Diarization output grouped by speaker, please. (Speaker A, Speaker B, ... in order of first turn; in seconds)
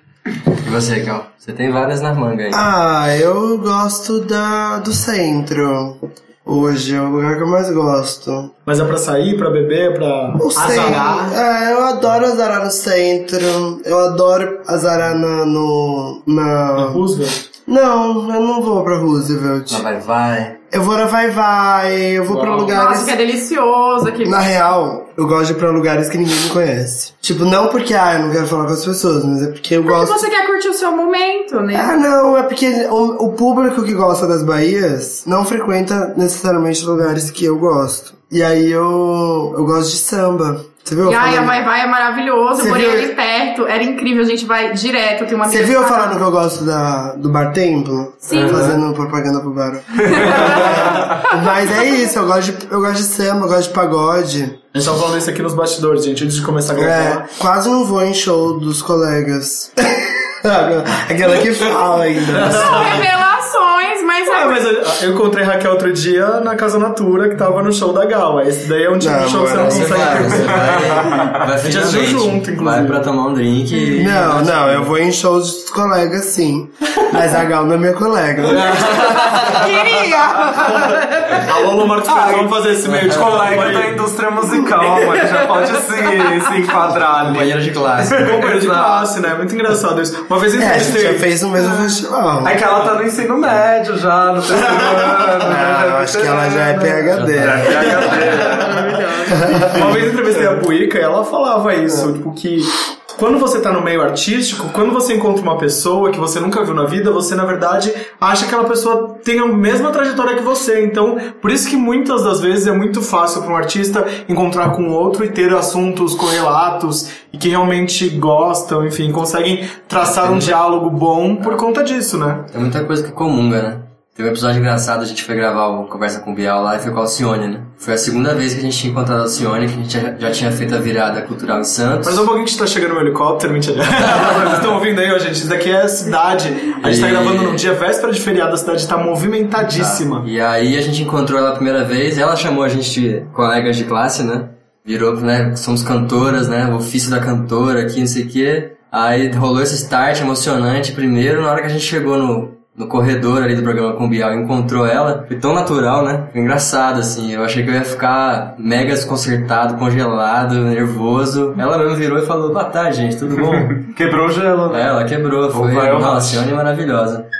Speaker A: 0.6-2.6, 19.7-20.6, 48.4-48.8, 69.5-74.9, 83.0-83.4, 87.1-88.3, 97.3-97.6, 120.0-120.6, 122.5-132.3, 136.8-137.7, 139.7-163.8, 164.7-167.3
Speaker B: 2.5-8.5, 10.4-17.1, 17.7-19.9, 20.7-23.2, 24.2-30.2, 31.7-41.6, 42.6-43.1, 45.4-54.6, 56.8-63.1, 69.0-70.4, 74.0-79.3, 90.5-92.6, 95.4-98.3, 99.3-100.0
Speaker C: 8.7-11.4, 16.8-17.4, 22.3-22.7, 54.7-57.3, 62.3-63.1, 64.3-73.1, 78.6-79.5, 81.3-84.0, 88.2-91.3, 97.8-122.5, 132.0-140.3
Speaker D: 22.7-24.5, 29.9-32.0, 41.0-46.2, 48.3-48.7, 50.1-51.3, 62.5-64.7, 79.5-81.2
Speaker E: 50.2-51.2, 82.1-89.2, 92.4-99.1, 163.4-165.0, 165.5-166.4